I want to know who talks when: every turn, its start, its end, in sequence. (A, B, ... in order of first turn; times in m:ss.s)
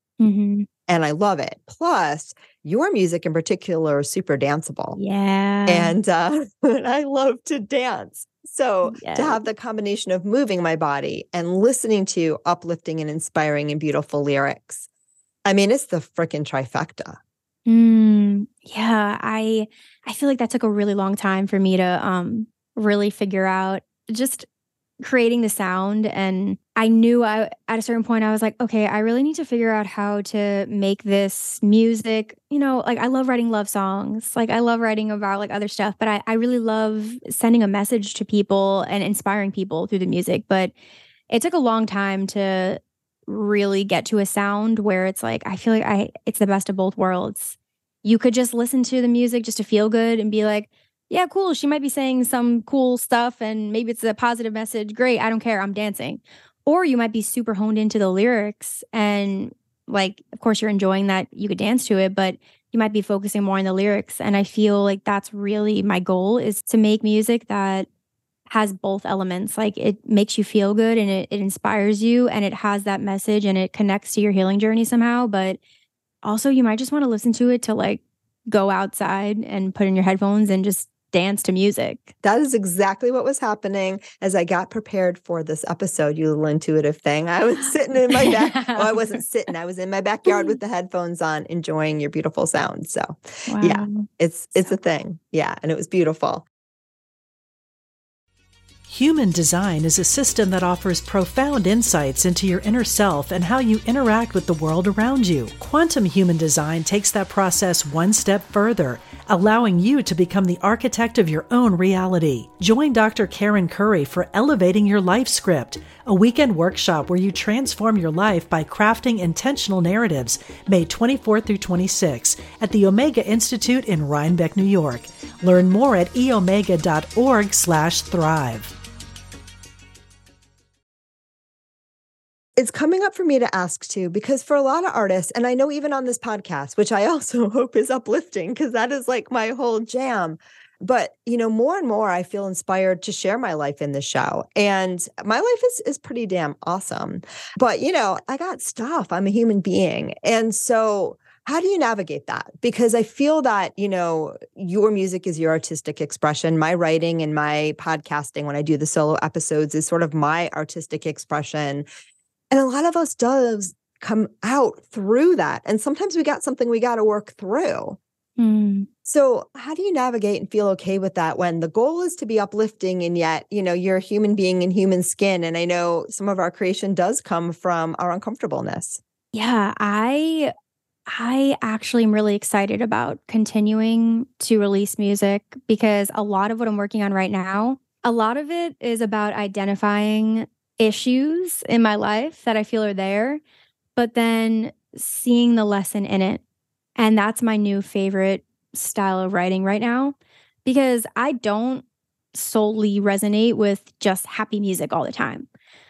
0:00.2-0:00.7 A
0:00.9-0:05.0 B
0:04.9-0:06.0 A
0:05.7-0:14.9 B
0:08.9-0:09.4 A
0:15.4-0:17.2 B
0:17.6-0:24.4 A
0:25.0-0:40.7 A
0:41.3-1:07.9 A
1:08.5-1:15.6 A
1:16.2-1:22.1 A
1:22.2-1:36.4 B
1:28.1-1:29.2 A
1:30.3-1:30.5 A
1:33.5-1:34.1 A
1:38.9-2:08.7 C
2:12.6-2:41.9 B
2:42.5-2:48.0 B
2:48.4-2:48.9 A
2:49.0-2:59.0 B
2:59.3-3:00.5 A
3:01.1-3:13.4 A
3:14.0-3:16.4 A
3:17.0-3:25.5 A